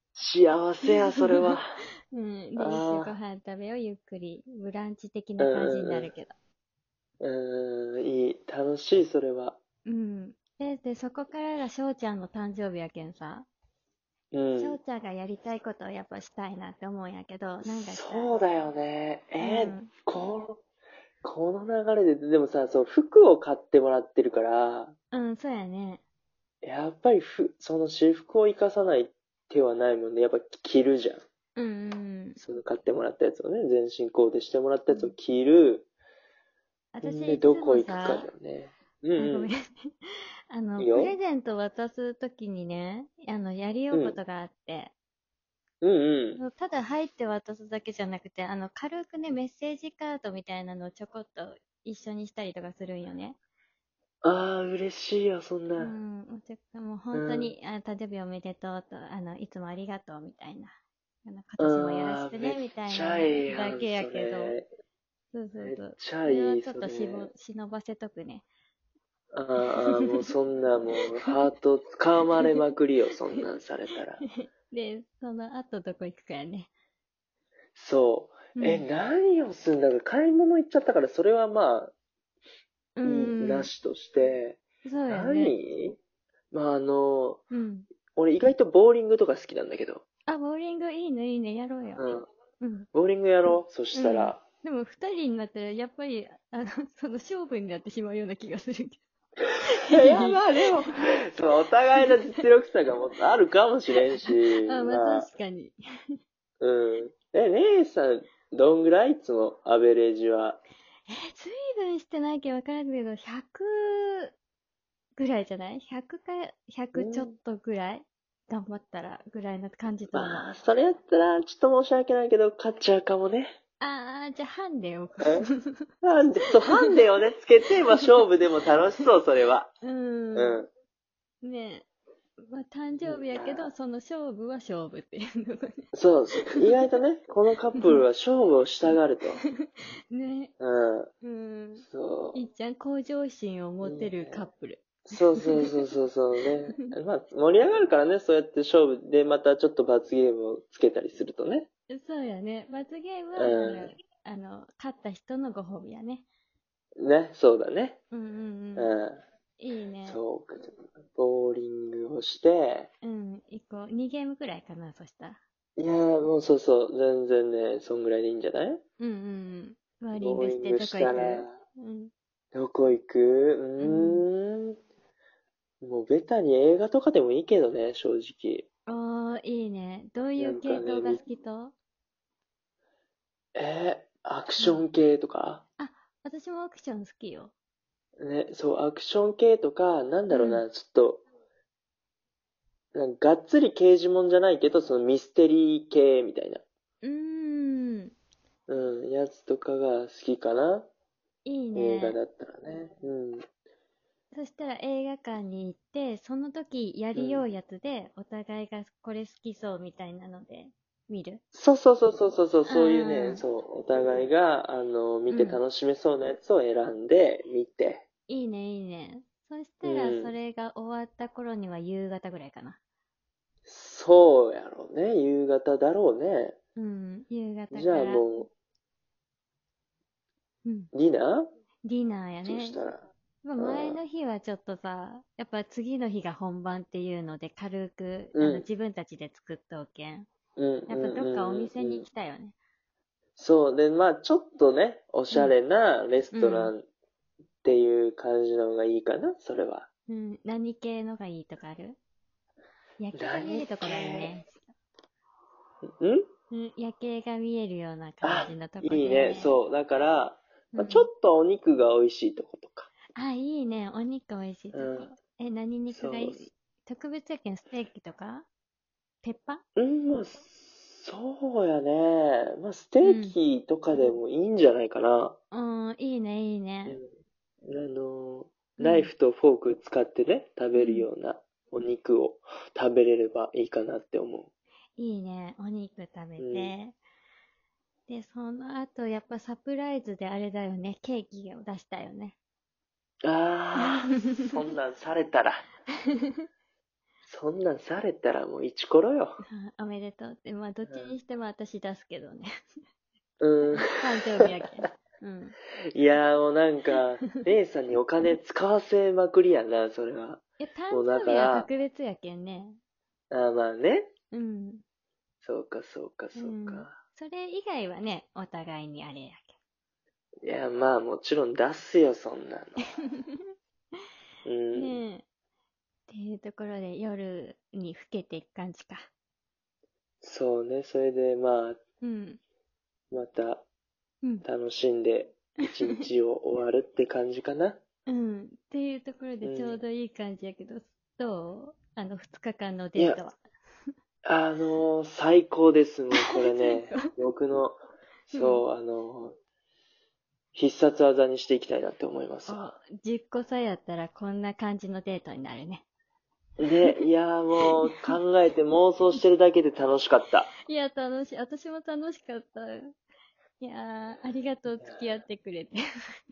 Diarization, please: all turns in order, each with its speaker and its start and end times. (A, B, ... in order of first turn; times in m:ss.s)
0:00.2-0:01.8 A
0:00.9-0:01.6 B
0:02.1-0:06.4 B
0:02.6-0:03.2 A
0:05.4-0:06.1 A
0:07.2-0:09.6 A
0:09.9-0:13.5 B
0:14.3-0:14.8 A
0:14.6-0:18.3 B
0:17.6-0:20.6 A
0:19.4-0:19.9 B
0:21.2-0:25.0 A
0:25.1-0:26.0 B
0:26.6-0:31.2 A
0:31.6-0:32.4 B
0:32.4-0:35.9 A
0:34.9-0:35.1 B
0:37.0-0:38.3 B
0:37.0-0:39.5 A
0:39.2-0:44.9 B
0:40.8-0:41.2 A
0:43.9-0:44.2 A
0:45.8-0:46.4 A
0:46.4-0:53.4 B
0:54.2-0:56.0 A
0:55.8-1:04.6 B
0:57.1-0:57.5 A
1:01.6-1:04.7 A
1:05.3-1:08.4 B
1:05.6-1:07.3 A
1:09.3-1:14.2 A
1:14.4-1:16.7 B
1:17.8-1:21.9 A
1:18.6-1:18.8 B
1:23.0-1:23.7 B
1:23.0-1:26.0 A
1:24.8-1:25.6 B
1:26.5-1:27.4 A
1:27.5-1:27.9 B
1:28.2-1:30.0 A
1:30.3-1:32.0 B
1:32.0-1:32.3 A
1:32.6-1:32.9 B
1:32.9-1:34.4 A
1:33.9-1:39.0 B
1:39.7-1:40.9 B
1:39.9-1:45.3 A
1:42.0-1:42.3 B
1:44.2-1:45.8 B
1:46.6-1:50.6 A
1:51.1-1:54.3 B
1:55.2-2:00.4 B
1:57.0-1:57.3 A
2:00.1-2:03.5 A
2:03.8-2:05.9 B
2:06.0-2:09.7 A
2:09.8-2:10.6 B
2:10.4-2:10.7 A
2:11.4-2:11.9 B
2:12.4-2:15.8 B
2:13.0-2:13.7 A
2:15.9-2:19.4 A
2:19.6-2:20.5 B
2:20.6-2:21.1 A
2:21.2-2:25.8 B
2:21.8-2:22.4 A
2:23.8-2:24.4 A
2:25.1-2:31.7 A
2:31.9-2:36.2 B
2:33.4-2:33.9 A
2:37.0-2:38.0 A
2:38.1-2:38.9 B
2:38.8-2:39.2 A
2:39.6-2:40.2 B
2:40.0-2:42.9 A
2:43.0-2:45.4 B
2:45.8-2:48.8 A
2:49.0-2:52.1 B
2:50.2-2:51.6 A
2:52.5-2:54.8 A
2:53.8-2:54.3 B
2:55.8-2:58.7 A
2:58.9-3:01.8 B
3:00.4-3:01.2 A
3:03.6-3:05.6 A
3:05.8-3:07.5 B
3:08.2-3:11.2 A
3:10.3-3:10.6 B
3:12.9-3:16.6 A
3:17.0-3:18.2 B
3:18.7-3:20.9 A
3:21.4-3:22.2 B
3:21.8-3:23.4 A
3:24.3-3:31.4 B
3:27.2-3:27.5 A
3:31.6-3:38.0 A
3:32.7-3:33.4 B
3:35.3-3:35.6 B
3:38.3-3:42.8 B
3:39.8-3:40.4 A
3:43.7-3:46.6 A
3:46.8-3:48.3 B
3:47.7-3:48.5 A
3:50.6-3:50.9 B
3:50.9-3:51.5 A
3:51.8-3:52.8 B
3:52.4-3:54.0 A
3:53.4-4:00.3 B
3:58.4-3:58.7 A
4:00.6-4:02.0 A
4:00.9-4:02.6 B
4:03.4-4:06.9 A
4:06.3-4:06.7 B
4:07.6-4:09.9 A
4:10.1-4:12.0 B
4:13.0-4:14.7 B
4:13.2-4:14.3 A
4:15.8-4:16.3 A
4:16.5-4:19.6 B
4:18.2-4:22.9 A
4:20.7-4:21.1 B
4:23.2-4:28.5 B
4:24.7-4:25.1 A
4:25.9-4:26.4 A
4:29.2-4:29.6 B
4:29.8-4:35.4 A
4:33.0-4:33.4 B
4:35.5-4:37.0 B
4:37.7-4:44.5 A
4:38.8-4:39.1 B
4:40.8-4:41.1 B
4:45.0-4:47.0 B
4:46.4-4:46.7 A
4:48.1-4:52.4 B
4:53.2-4:55.6 A
4:56.1-4:56.5 B
4:57.3-4:59.4 A
4:59.5-5:02.5 B
5:00.9-5:01.1 A
5:03.4-5:04.5 A
5:03.7-5:05.6 B
5:05.9-5:11.7 A
5:10.6-5:12.8 B
5:13.3-5:14.1 A
5:14.3-5:14.8 B
5:15.4-5:16.9 A
5:16.4-5:19.6 B
5:20.4-5:23.0 A
5:23.1-5:23.5 B
5:24.4-5:25.0 A
5:24.7-5:25.2 B
5:26.1-5:29.1 B
5:30.2-5:31.8 A
5:32.0-5:32.4 B
5:33.1-5:33.7 A
5:34.4-5:37.8 A
5:38.1-5:43.4 B
5:39.4-5:39.8 A
5:43.0-5:43.2 A
5:44.2-5:47.8 A
5:46.1-5:47.1 B
5:48.3-5:49.4 A
5:48.3-5:48.6 B
5:50.6-5:52.7 A
5:52.5-5:55.8 B
5:56.6-6:00.5 A
5:57.6-5:58.2 B
6:00.6-6:02.9 B
6:03.6-6:05.8 B